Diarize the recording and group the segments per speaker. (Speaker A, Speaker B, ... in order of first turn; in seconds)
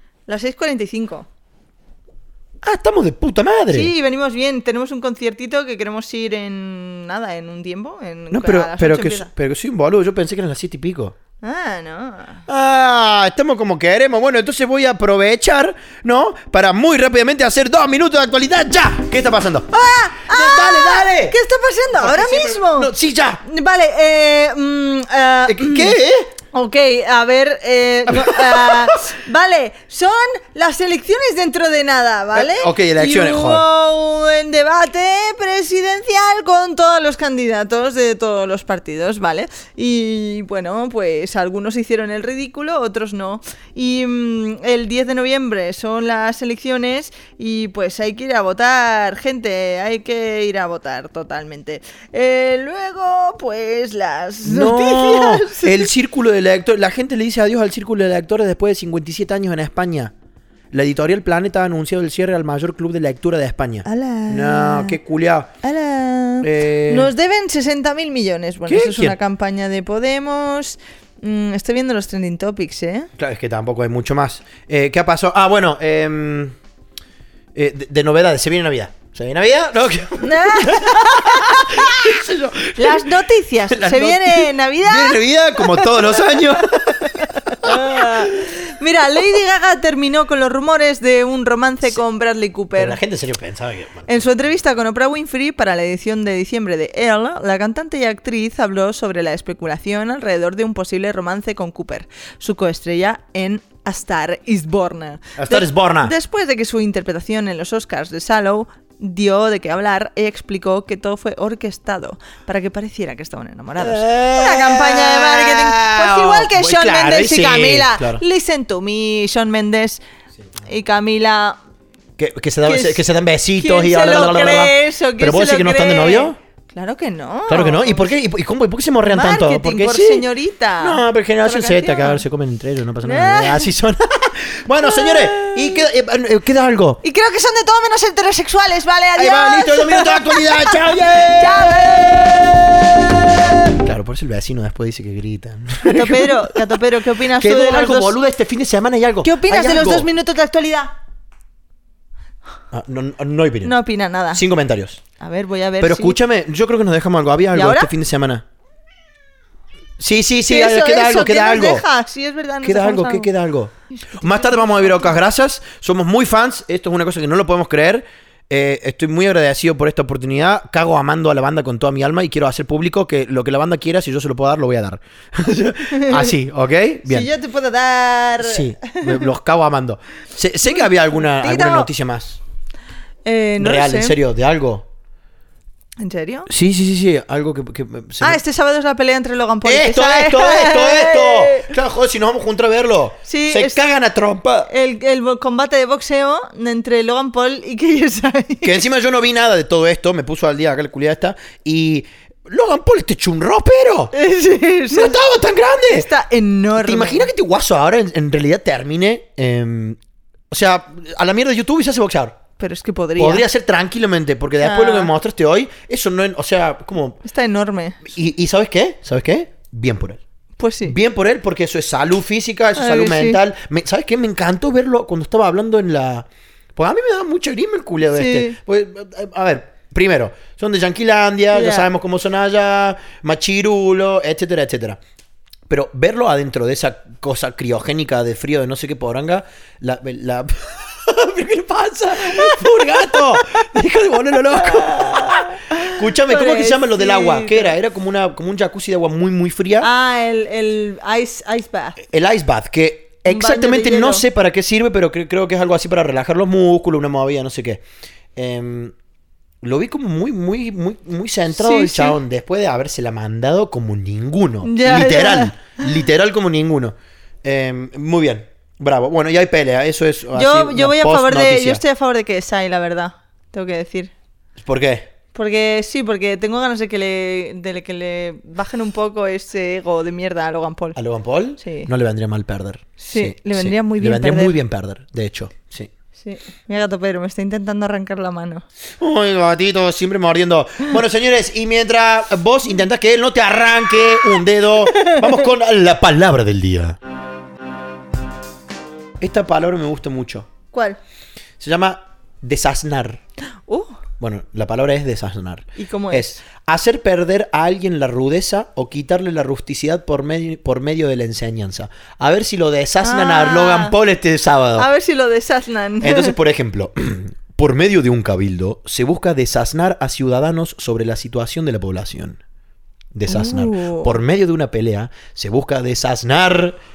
Speaker A: 0.3-1.3, 3.7-9.3, 11.4-12.4, 19.7-22.9, 23.4-26.0, 26.5-55.9, 63.9-65.0, 65.6-73.1, 80.2-82.1, 82.8-93.0, 94.1-120.0, 120.6-121.6, 122.6-123.0, 123.6-128.1, 129.0-132.2, 133.0-133.7, 134.8-135.8, 137.0-143.8, 145.8-148.2, 149.2-150.9, 153.6-154.4, 155.2-156.2, 157.5-157.9, 160.5-163.3, 163.9-165.2, 175.9-176.3, 177.1-179.3, 181.2-181.9, 183.2-184.2, 186.0-186.5, 188.2-191.7, 193.3-193.8, 194.7-198.8, 204.1-205.2, 205.9-207.3, 212.6-213.4, 214.6-215.1, 217.2-218.1, 220.6-221.0, 222.8-223.4, 228.1-228.6, 231.5-231.9, 242.2-243.7, 244.5-247.8, 249.8-252.0, 253.3-254.2, 261.5-262.2, 264.6-265.6, 270.3-274.1, 275.3-281.0, 281.6-281.9, 283.0-284.6, 286.2-288.6, 294.9-295.4, 300.7-301.0, 303.7-304.0, 305.8-306.3, 313.0-313.9, 314.8-316.4, 323.3-324.1
Speaker B: 2.6-3.9, 8.3-11.2, 12.5-21.4, 22.0-23.4, 25.5-26.3, 28.1-29.0, 32.3-33.6, 54.4-60.1, 60.7-65.5, 66.4-67.1, 68.7-69.2, 73.2-76.5, 77.5-83.2, 83.7-88.5, 92.8-94.2, 105.4-106.1, 113.8-118.2, 122.2-126.4, 127.5-130.3, 130.8-137.0, 139.2-142.4, 143.8-150.1, 152.7-153.7, 154.3-155.0, 155.8-158.4, 160.0-161.8, 162.6-177.3, 178.4-182.4, 183.6-184.9, 186.5-188.4, 189.7-194.7, 198.6-204.1, 204.9-206.1, 206.8-210.0, 210.5-212.4, 213.2-217.2, 218.1-220.2, 220.8-235.0, 235.7-249.9, 252.0-257.8, 258.4-258.9, 259.6-266.9, 267.4-271.8, 274.6-275.1, 281.0-285.9, 289.0-297.0, 299.2-300.5, 301.6-303.2, 304.2-314.9, 316.0-322.4, 323.1-326.8